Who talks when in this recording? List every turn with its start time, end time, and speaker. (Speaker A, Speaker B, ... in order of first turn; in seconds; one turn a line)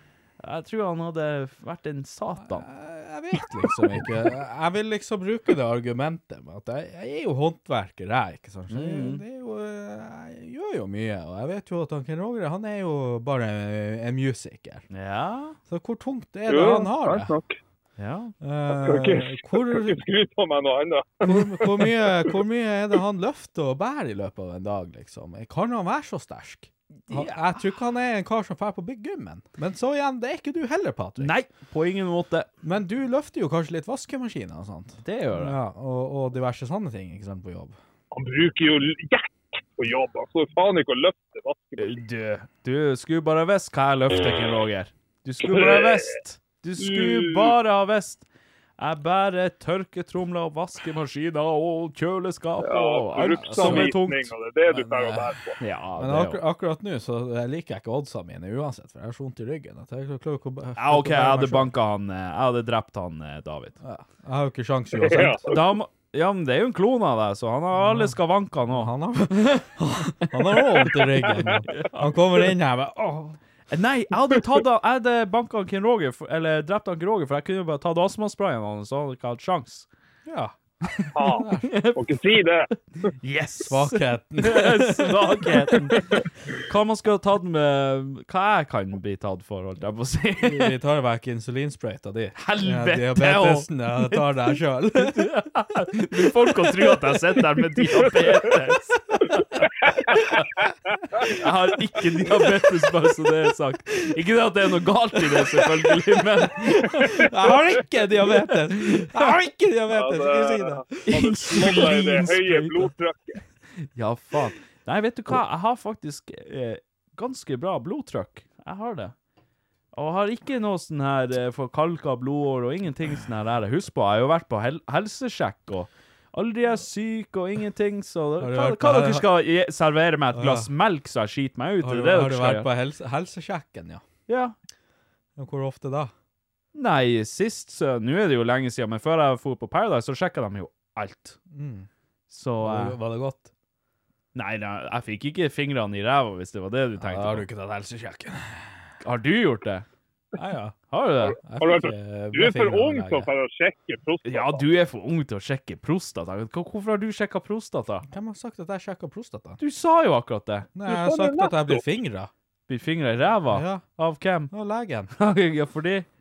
Speaker A: 0.4-2.7
Speaker B: 2.4-14.9
Speaker A: 8.7-9.2
Speaker A: 14.9-15.6
Speaker B: 15.7-17.3
Speaker C: 16.5-17.6
Speaker A: 18.0-18.3
Speaker B: 18.4-20.0
Speaker C: 18.8-22.3
Speaker B: 21.2-31.3
Speaker A: 27.1-27.5
Speaker A: 31.2-32.5
Speaker B: 32.6-37.8
Speaker A: 35.0-35.6
Speaker C: 38.1-42.0
Speaker A: 41.8-48.2
Speaker C: 45.5-46.1
Speaker C: 46.8-47.5
Speaker A: 48.8-54.3
Speaker C: 52.6-55.6
Speaker B: 53.6-54.0
Speaker B: 54.7-55.4
Speaker A: 55.6-56.4
Speaker B: 56.0-61.7
Speaker A: 60.8-63.8
Speaker B: 63.8-65.4
Speaker C: 65.0-65.6
Speaker A: 65.4-69.7
Speaker B: 67.7-73.4
Speaker A: 71.7-72.2
Speaker A: 73.7-79.9
Speaker B: 80.3-80.6
Speaker A: 80.8-81.1
Speaker C: 81.2-82.7
Speaker B: 81.2-81.7
Speaker A: 81.7-82.0
Speaker A: 83.2-90.8
Speaker B: 83.7-85.6
Speaker B: 90.4-95.3
Speaker A: 92.4-100.5
Speaker A: 101.2-107.5
Speaker B: 105.3-105.9
Speaker B: 106.6-111.1
Speaker A: 108.2-109.3
Speaker C: 109.9-113.4
Speaker A: 111.1-112.9
Speaker A: 113.9-119.1
Speaker A: 119.9-132.7
Speaker B: 128.4-129.3
Speaker B: 130.3-130.7
Speaker B: 131.8-134.0
Speaker A: 134.3-134.6
Speaker B: 135.4-136.1
Speaker A: 136.8-141.4
Speaker B: 141.5-141.9
Speaker A: 142.3-143.0
Speaker B: 142.6-143.5
Speaker A: 144.3-147.5
Speaker B: 147.0-148.7
Speaker A: 149.0-149.8
Speaker B: 150.3-150.8
Speaker A: 150.9-151.4
Speaker B: 151.4-153.3
Speaker C: 151.6-154.7
Speaker A: 154.2-158.1
Speaker B: 158.1-159.6
Speaker A: 159.6-160.7
Speaker B: 160.8-162.3
Speaker C: 160.9-161.9
Speaker A: 162.7-164.5
Speaker B: 163.5-163.9
Speaker B: 164.5-165.1
Speaker A: 165.2-166.1